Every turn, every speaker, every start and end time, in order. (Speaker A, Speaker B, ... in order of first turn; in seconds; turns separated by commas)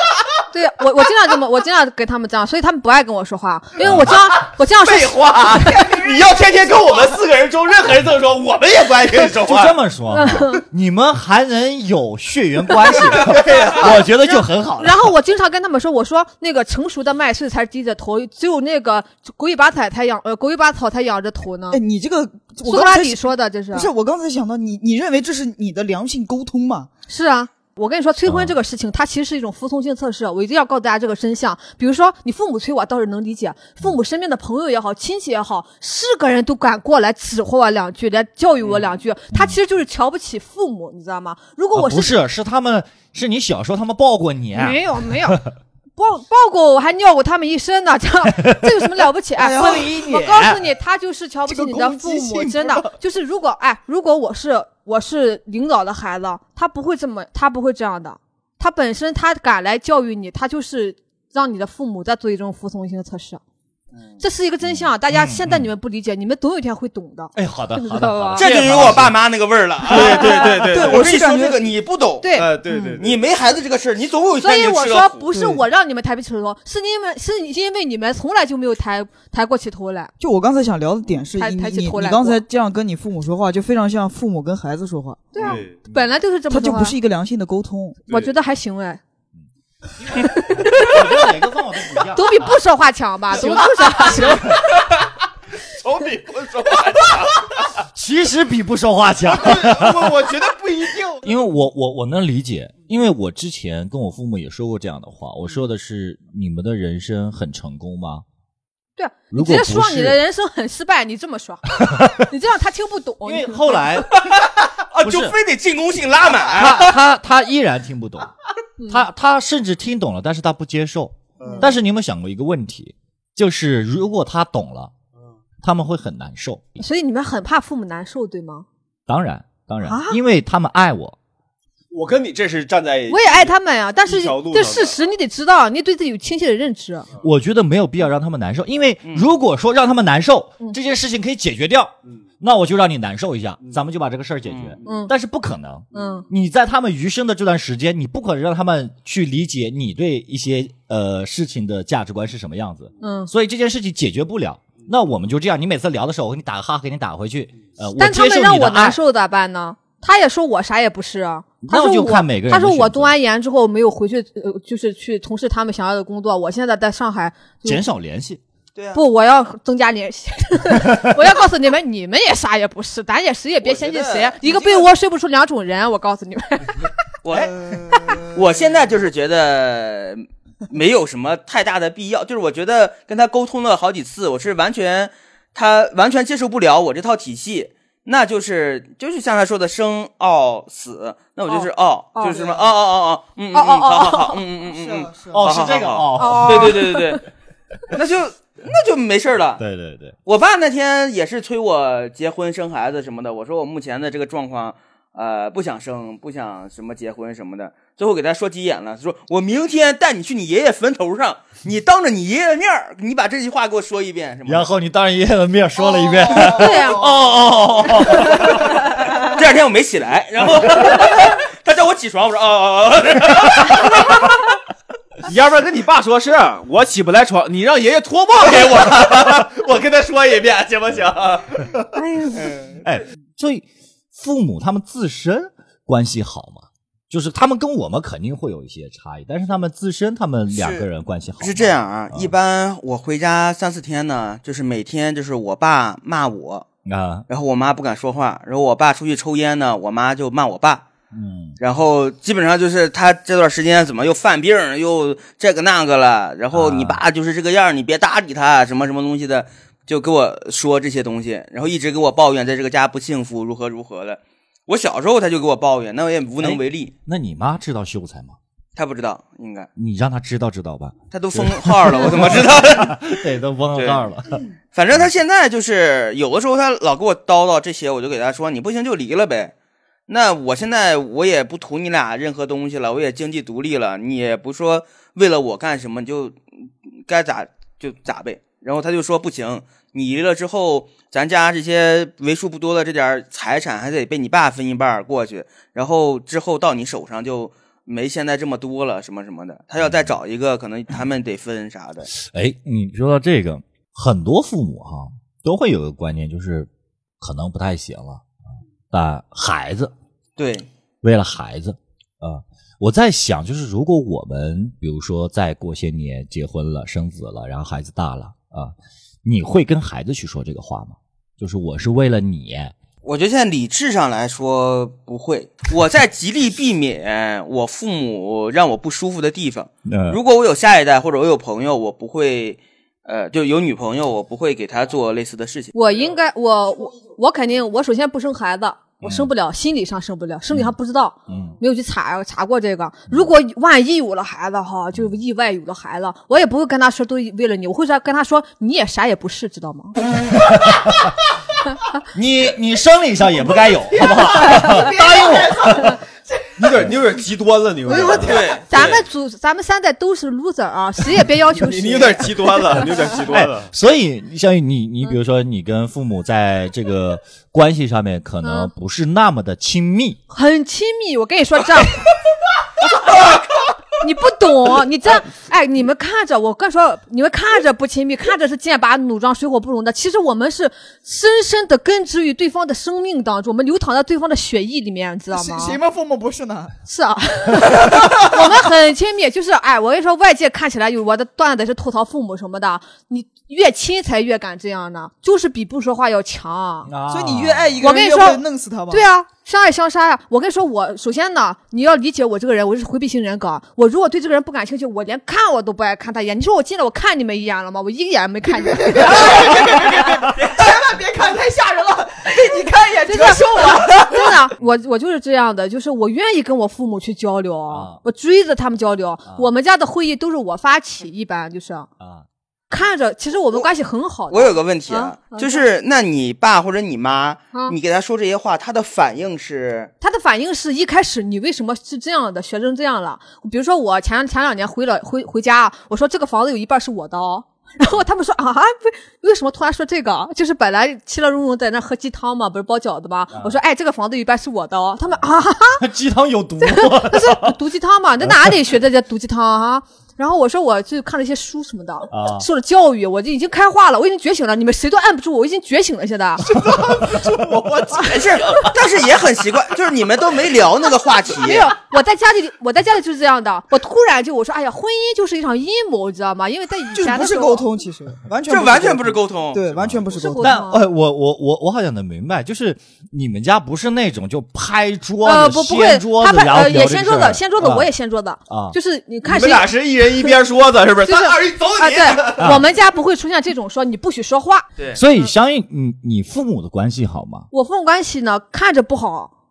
Speaker A: 0.5-6.0, Speaker B: 3.8-4.1, Speaker C: 4.8-9.8, Speaker B: 9.3-15.1, Speaker A: 10.1-10.6, Speaker A: 12.9-21.8, Speaker C: 13.1-13.9, Speaker D: 21.7-23.2, Speaker A: 22.6-23.9, Speaker D: 23.7-26.9, Speaker A: 27.1-42.1, Speaker B: 28.3-28.5, Speaker B: 41.7-45.5, Speaker A: 44.5-45.4, Speaker A: 46.0-63.4, Speaker D: 49.4-50.6, Speaker D: 51.5-52.9, Speaker A: 64.2-68.5, Speaker B: 64.7-65.7, Speaker B: 67.3-69.2, Speaker E: 68.4-72.3, Speaker C: 69.9-71.1, Speaker A: 69.9-70.5, Speaker D: 70.6-71.6, Speaker A: 72.2-73.0, Speaker C: 72.3-73.2, Speaker E: 73.0-75.2, Speaker A: 74.4-80.1, Speaker D: 75.3-75.6, Speaker D: 80.2-85.6, Speaker A: 81.3-82.4, Speaker A: 85.3-86.9, Speaker C: 85.4-85.8, Speaker D: 86.5-88.0, Speaker C: 88.1-88.3, Speaker A: 88.1-89.0, Speaker B: 90.0-92.5, Speaker A: 90.2-91.2, Speaker A: 92.0-94.6, Speaker C: 95.6-97.5, Speaker B: 97.9-100.3, Speaker C: 99.4-101.2, Speaker B: 101.2-108.2, Speaker A: 109.0-113.8, Speaker B: 109.3-110.2, Speaker B: 111.8-112.1, Speaker B: 113.2-114.2, Speaker E: 114.2-117.0, Speaker B: 115.0-115.3, Speaker B: 116.4-118.3, Speaker A: 118.8-119.0, Speaker B: 118.9-124.9, Speaker C: 121.4-121.7, Speaker A: 121.4-121.7, Speaker B: 125.6-126.7, Speaker A: 126.8-128.7, Speaker B: 129.1-131.2, Speaker A: 129.8-130.2, Speaker C: 131.9-133.5, Speaker A: 133.1-137.1, Speaker C: 134.1-135.0, Speaker B: 137.2-159.0, Speaker E: 144.5-144.8, Speaker A: 144.8-145.1, Speaker A: 145.9-146.2, Speaker C: 145.9-146.2, Speaker A: 153.0-153.3, Speaker A: 158.0-167.8, Speaker B: 161.6-163.1, Speaker B: 167.6-168.4, Speaker E: 168.7-169.0, Speaker A: 168.9-176.9, Speaker E: 173.6-174.7, Speaker E: 177.2-197.2, Speaker D: 177.6-178.4, Speaker A: 191.5-192.5, Speaker A: 193.5-194.4, Speaker D: 194.7-195.7, Speaker B: 195.3-197.0, Speaker A: 196.2-197.2, Speaker E: 197.9-199.6, Speaker B: 199.6-200.2, Speaker E: 200.2-214.7, Speaker B: 214.4-218.7, Speaker A: 216.2-217.2, Speaker E: 217.0-224.3, Speaker C: 225.2-231.9, Speaker A: 231.9-232.6, Speaker B: 232.8-242.3, Speaker E: 240.5-240.8, Speaker E: 241.4-246.7, Speaker B: 246.8-247.3, Speaker E: 247.3-250.8, Speaker B: 251.1-251.6, Speaker E: 251.6-266.9, Speaker B: 256.5-257.0, Speaker B: 266.4-268.4, Speaker E: 268.8-269.7, Speaker B: 269.8-274.4, Speaker E: 271.1-273.0, Speaker E: 273.8-274.1, Speaker E: 274.7-279.5, Speaker E: 280.1-286.4, Speaker E: 287.1-302.1, Speaker B: 302.2-306.7, Speaker B: 307.2-308.4, Speaker B: 308.9-309.9, Speaker E: 310.4-310.7, Speaker B: 311.0-322.7, Speaker E: 323.0-335.7, Speaker B: 329.9-330.2, Speaker A: 335.7-350.0, Speaker B: 339.0-339.3, Speaker B: 341.3-341.6, Speaker B: 350.3-351.2, Speaker B: 352.0-356.0, Speaker D: 354.2-355.9, Speaker C: 356.6-358.6, Speaker A: 357.9-362.8, Speaker E: 358.1-359.0, Speaker C: 361.5-363.7, Speaker B: 363.3-370.2, Speaker A: 368.4-368.7, Speaker A: 370.3-372.1, Speaker A: 374.0-385.8, Speaker D: 385.3-386.7, Speaker A: 386.9-396.9, Speaker D: 387.9-388.4, Speaker B: 396.9-397.8, Speaker D: 397.1-399.0, Speaker A: 397.8-410.2, Speaker D: 408.4-414.4, Speaker A: 413.1-421.9, Speaker B: 417.7-418.0, Speaker B: 422.0-422.2, Speaker A: 422.7-425.6, Speaker E: 424.3-429.9, Speaker A: 430.0-445.8, Speaker B: 445.8-447.5, Speaker A: 446.6-456.6, Speaker B: 448.2-448.6, Speaker B: 452.1-452.4, Speaker C: 456.5-458.8, Speaker E: 458.1-461.7, Speaker A: 461.4-467.6, Speaker D: 466.9-470.6, Speaker E: 468.5-469.6, Speaker B: 469.7-477.9, Speaker A: 470.1-470.8, Speaker A: 475.2-480.4, Speaker B: 478.5-478.8, Speaker C: 479.2-482.6, Speaker A: 481.0-485.3, Speaker B: 482.4-482.6, Speaker B: 484.9-487.5, Speaker A: 487.5-489.3